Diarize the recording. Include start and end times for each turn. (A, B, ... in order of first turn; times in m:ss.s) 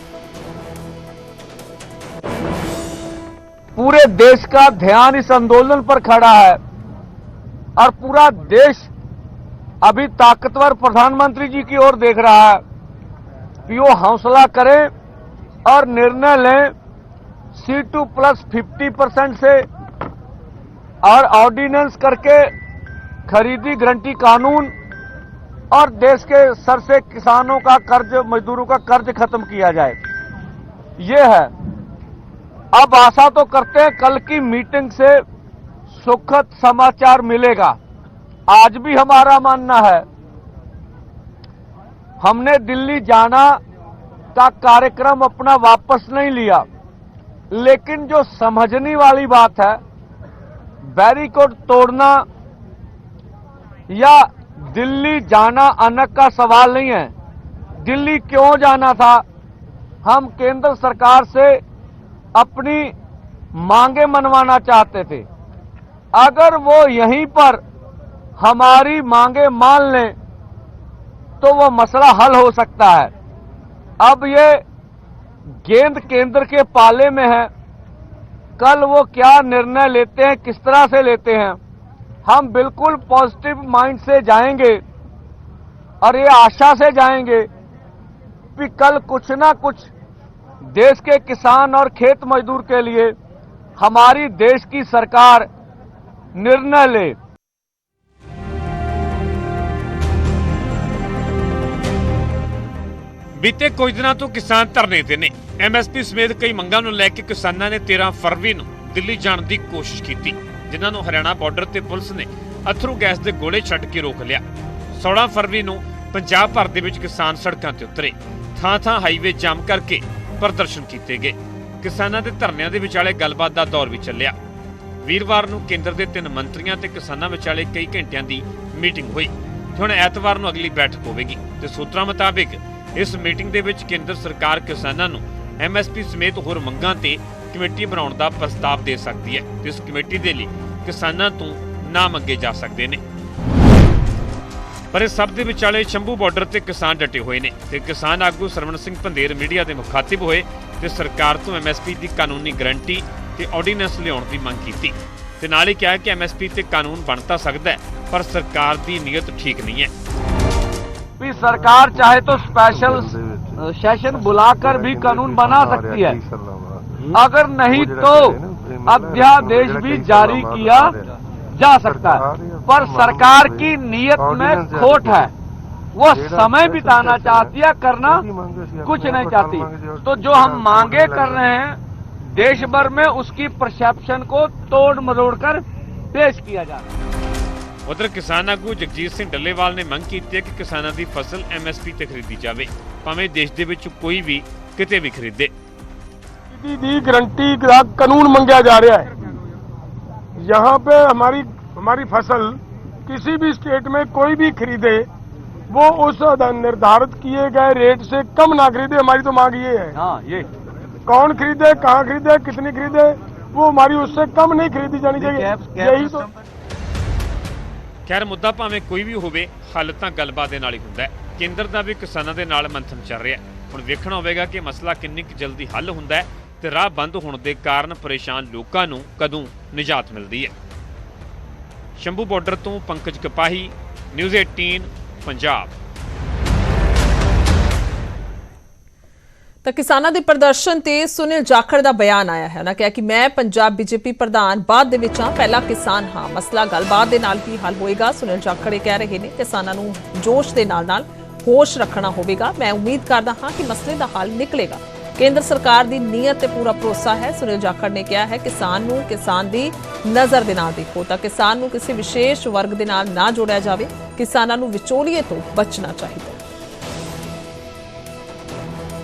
0:03.8-0:06.6 A
0:07.8-0:08.9 A
0:09.8-0:12.6 A
0:13.7-0:14.9 A
0:15.7-0:16.7 A
0:17.6-0:19.7 A
0:21.0-0:22.5 A
0:23.3-0:24.7 A
0:25.7-0:30.0 A
0:31.0-0:31.5 A
0:32.7-0:35.2 A
0:35.9-0:37.8 A
0:38.5-0:40.0 A
0:42.2-0:43.6 A
0:44.4-0:46.7 A
0:47.5-0:49.8 A
0:50.8-0:52.3 A
0:53.9-0:57.1 A
0:57.8-0:59.2 A
1:00.0-1:01.6 A
1:02.4-1:02.9 A
1:03.6-1:05.3 A
1:06.2-1:07.6 A
1:08.4-1:10.2 A
1:11.4-1:13.1 A
1:14.0-1:14.6 A
1:15.6-1:17.5 A
1:18.6-1:21.6 A
1:22.3-1:24.8 A
1:26.0-1:27.5 A
1:28.6-1:29.9 A
1:30.7-1:33.2 A
1:33.8-1:35.5 A
1:36.4-1:37.2 A
1:43.4-1:54.4 B
1:55.0-2:04.4 B
2:05.0-2:23.0 B
2:24.9-2:39.9 B
2:41.2-2:46.2 A
2:47.1-2:51.0 A
2:51.6-2:55.3 A
2:56.0-2:58.3 A
2:58.8-3:01.8 A
3:02.3-3:06.9 A
3:07.9-3:15.5 B
3:16.5-3:19.1 C
3:20.4-3:25.1 C
3:25.7-3:30.0 C
3:30.0-3:30.5 A
3:31.1-3:36.3 C
3:35.2-3:36.3 A
3:38.1-3:50.5 B
3:52.0-3:55.7 B
3:59.6-4:26.4 D